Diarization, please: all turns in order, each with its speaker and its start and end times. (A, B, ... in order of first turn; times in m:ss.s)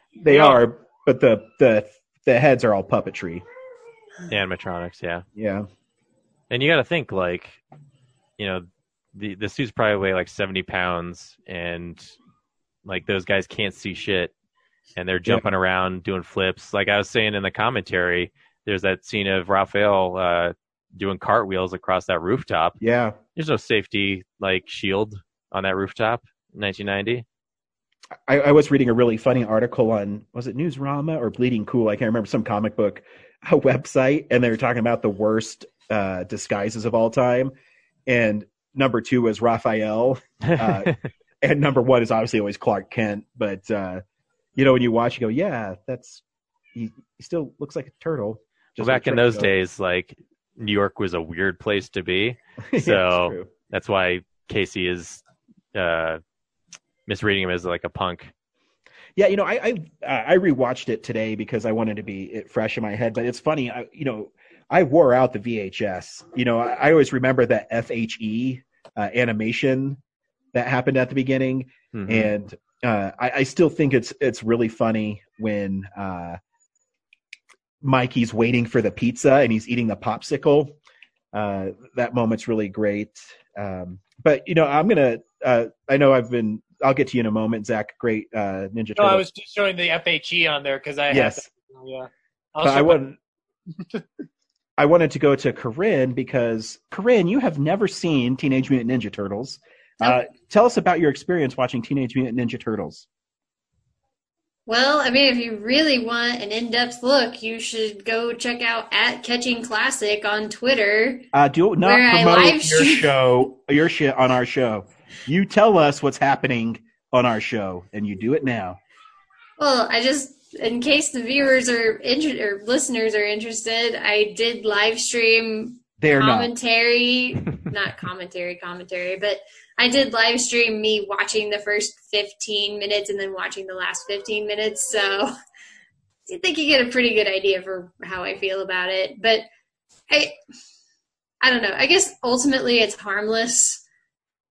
0:00.2-0:03.4 A
0:04.3-0:05.2 B
0:05.3-0:05.7 A
0:06.5-0:07.6 B
0:08.4-0:12.1 B
0:12.8-0:14.3 B
0:15.0-0:22.8 B
0:22.8-0:23.2 A
0:23.4-0:27.2 B
0:28.3-0:37.5 A
0:38.0-0:40.9 A
0:40.4-0:41.0 B
0:41.4-0:44.0 A
0:44.6-0:46.2 A
0:46.7-0:49.5 A
0:48.8-0:55.2 B
0:52.7-0:53.5 A
0:55.7-0:56.2 B
0:57.1-0:58.3 B
0:59.2-1:10.0 A
1:10.5-1:16.4 A
1:11.9-1:12.3 B
1:17.8-1:20.8 A
1:21.3-1:29.2 A
1:29.0-1:33.0 C
1:31.1-1:31.4 A
1:32.6-1:33.2 A
1:34.8-1:43.1 A
1:44.7-1:51.2 D
1:51.3-1:58.8 A
1:51.8-1:53.1 D
1:59.6-2:15.3 D
2:06.0-2:06.5 A
2:16.3-2:19.4 D
2:20.1-2:20.4 D
2:21.4-2:23.8 D